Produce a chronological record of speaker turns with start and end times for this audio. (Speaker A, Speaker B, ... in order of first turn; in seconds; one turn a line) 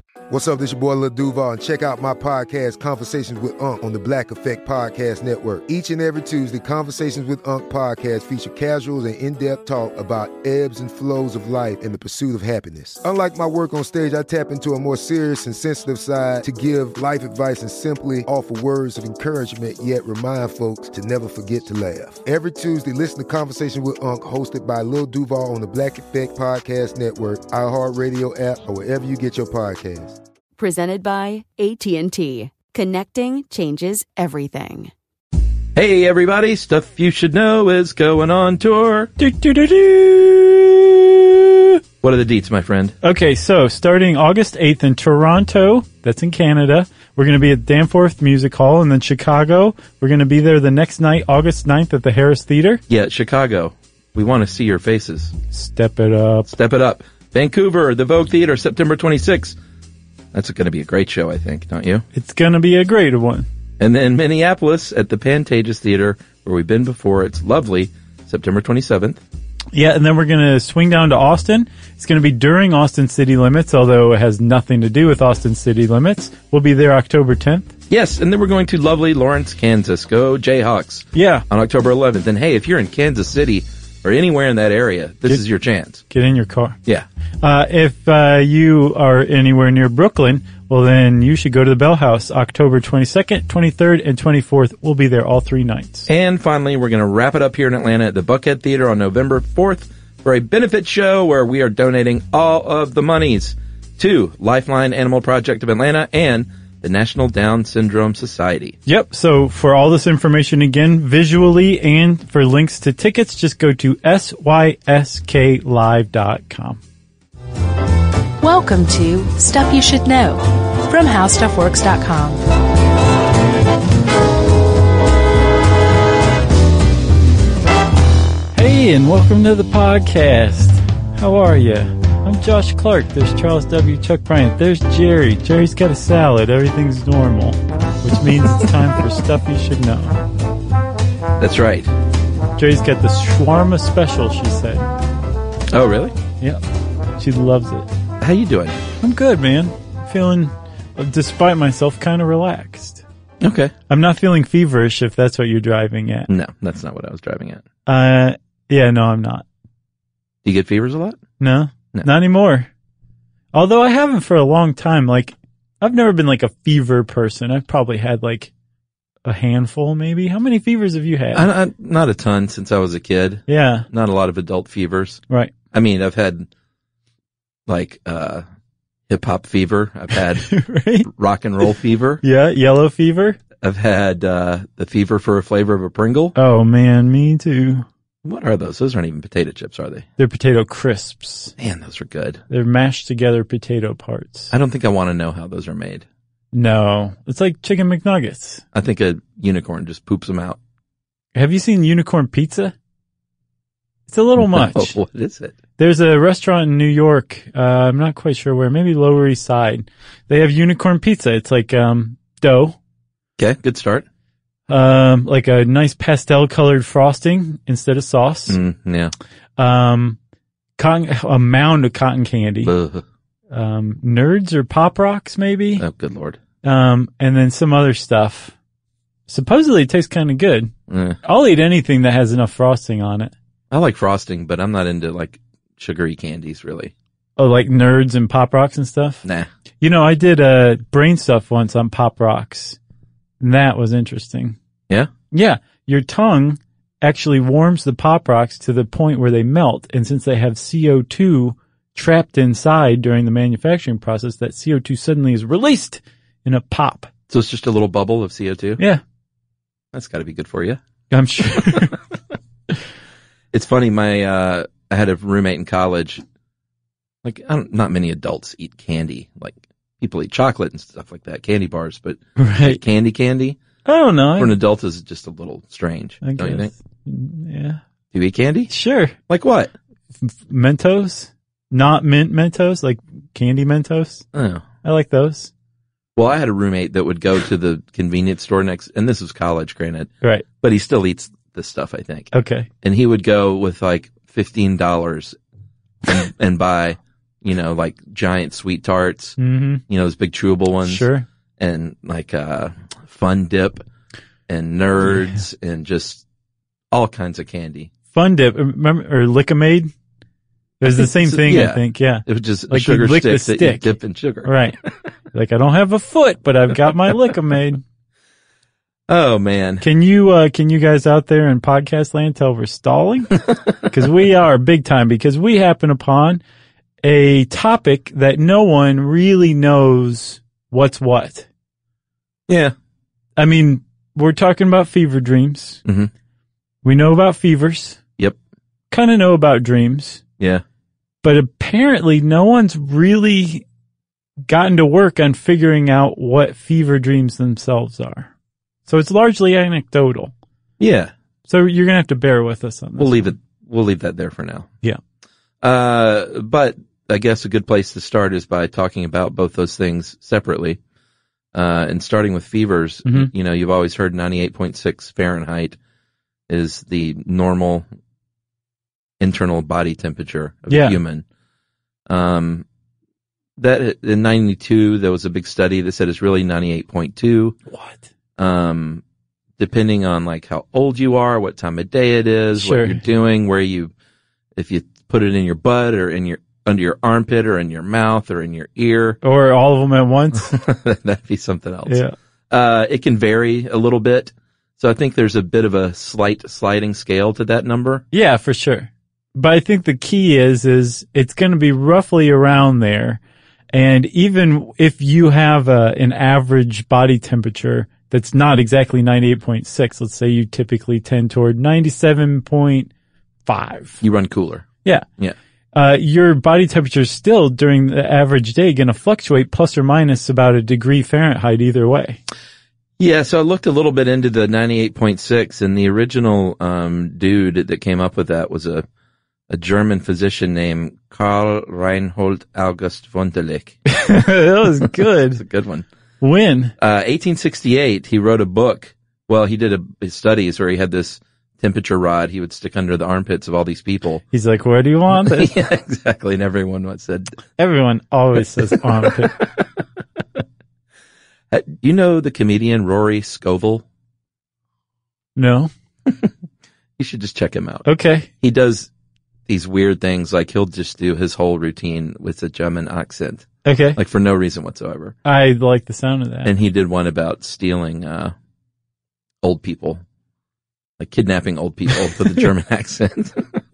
Speaker A: 0.3-30.2
Speaker B: 30.6-34.9
Speaker C: 35.7-39.1
Speaker D: 39.2-41.8
Speaker C: 42.0-43.0
Speaker D: 43.0-52.8
Speaker C: 52.9-55.3
Speaker D: 55.5-56.5
Speaker C: 56.5-59.5
Speaker C: 60.3-62.0
Speaker D: 62.1-63.5
Speaker C: 63.8-69.2
Speaker D: 69.7-77.7
Speaker C: 77.9-86.0
Speaker D: 81.1-81.5
Speaker D: 86.1-86.8
Speaker D: 87.4-96.1
Speaker C: 96.1-108.8
Speaker D: 108.8-116.8
Speaker E: 118.4-122.4
Speaker D: 128.5-140.2
Speaker C: 141.4-141.9
Speaker D: 142.6-144.9
Speaker C: 145.7-146.1
Speaker D: 147.2-147.9
Speaker C: 148.2-148.8
Speaker D: 149.0-153.0
Speaker C: 153.4-153.7
Speaker D: 153.9-156.3
Speaker C: 156.3-157.6
Speaker D: 157.9-159.4
Speaker C: 160.4-161.2
Speaker D: 161.4-162.7
Speaker D: 163.5-168.5
Speaker D: 169.2-171.5
Speaker C: 171.3-176.5
Speaker D: 173.5-173.9
Speaker C: 177.7-178.4
Speaker C: 179.1-180.5
Speaker D: 180.4-181.1
Speaker C: 181.1-182.2
Speaker D: 182.2-183.4
Speaker C: 183.6-186.3
Speaker D: 186.3-187.8
Speaker C: 188.2-190.1
Speaker D: 190.2-191.5
Speaker C: 191.6-192.4
Speaker D: 192.5-194.5
Speaker C: 194.5-196.0
Speaker D: 196.5-198.6
Speaker C: 198.7-200.6
Speaker D: 201.3-202.7
Speaker D: 204.1-204.9
Speaker C: 204.4-205.5
Speaker D: 205.8-212.8
Speaker C: 213.4-214.0
Speaker D: 214.7-218.6
Speaker C: 218.5-219.1
Speaker D: 219.6-220.2
Speaker D: 220.8-222.7
Speaker C: 222.6-223.0
Speaker D: 223.5-225.8
Speaker C: 225.8-226.4
Speaker D: 226.6-228.5
Speaker D: 229.3-230.7
Speaker C: 230.9-231.2
Speaker D: 231.2-233.3
Speaker C: 233.7-236.9
Speaker D: 237.4-239.2
Speaker D: 239.8-242.8
Speaker D: 243.4-244.6
Speaker D: 245.3-257.1
Speaker C: 257.3-258.8
Speaker C: 259.9-260.8
Speaker D: 261.1-262.0
Speaker C: 263.5-266.2
Speaker C: 267.2-273.6
Speaker D: 272.4-272.8
Speaker D: 273.8-274.6
Speaker C: 274.4-276.7
Speaker D: 276.2-277.8
Speaker C: 278.1-278.7
Speaker D: 278.7-279.1
Speaker C: 279.3-279.7
Speaker D: 280.2-284.2
Speaker C: 284.3-284.6
Speaker D: 284.8-285.5
Speaker C: 286.1-292.3
Speaker D: 292.3-292.7
Speaker C: 292.8-295.4
Speaker C: 296.1-299.4
Speaker D: 299.4-299.8
Speaker C: 299.9-301.1
Speaker D: 300.8-301.2
Speaker C: 301.6-303.8
Speaker C: 304.5-306.2
Speaker D: 305.0-305.4
Speaker C: 306.9-307.9
Speaker D: 308.1-309.9
Speaker D: 310.8-314.8
Speaker C: 310.9-314.6
Speaker D: 315.3-317.8
Speaker C: 319.1-319.8
Speaker D: 319.8-326.4
Speaker D: 327.0-331.5
Speaker C: 332.5-332.7
Speaker D: 333.4-335.8
Speaker C: 335.8-336.1
Speaker D: 336.8-338.0
Speaker D: 338.9-340.2
Speaker D: 341.2-343.6
Speaker D: 344.5-348.3
Speaker D: 348.9-350.3
Speaker C: 350.8-351.1
Speaker D: 351.5-353.3
Speaker C: 353.0-354.7
Speaker C: 355.6-360.8
Speaker C: 361.5-365.8
Speaker C: 366.5-367.8
Speaker C: 369.2-371.2
Speaker D: 370.7-371.0
Speaker C: 372.1-372.6
Speaker C: 373.6-377.6
Speaker D: 377.7-378.0
Speaker C: 378.4-379.0
Speaker C: 379.6-383.9
Speaker D: 382.6-383.0
Speaker C: 384.6-389.2
Speaker D: 389.2-390.5
Speaker C: 390.3-398.0
Speaker D: 391.9-392.1
Speaker D: 398.1-403.2
Speaker D: 403.7-412.9
Speaker D: 413.4-414.0
Speaker C: 414.0-415.4
Speaker D: 415.7-422.2
Speaker C: 423.0-428.9
Speaker C: 429.5-433.8
Speaker D: 433.9-435.4
Speaker C: 435.4-435.9
Speaker D: 436.2-436.7
Speaker C: 436.8-444.2
Speaker D: 444.3-445.5
Speaker C: 445.1-447.4
Speaker D: 447.6-449.3
Speaker C: 449.0-449.6
Speaker C: 451.5-453.8
Speaker D: 455.4-455.7
Speaker C: 457.0-457.9
Speaker D: 457.9-458.3
Speaker C: 458.4-458.9
Speaker C: 459.5-465.1
Speaker D: 463.6-464.0
Speaker D: 465.2-466.5
Speaker C: 466.4-468.3
Speaker C: 469.4-470.0
Speaker C: 471.0-473.4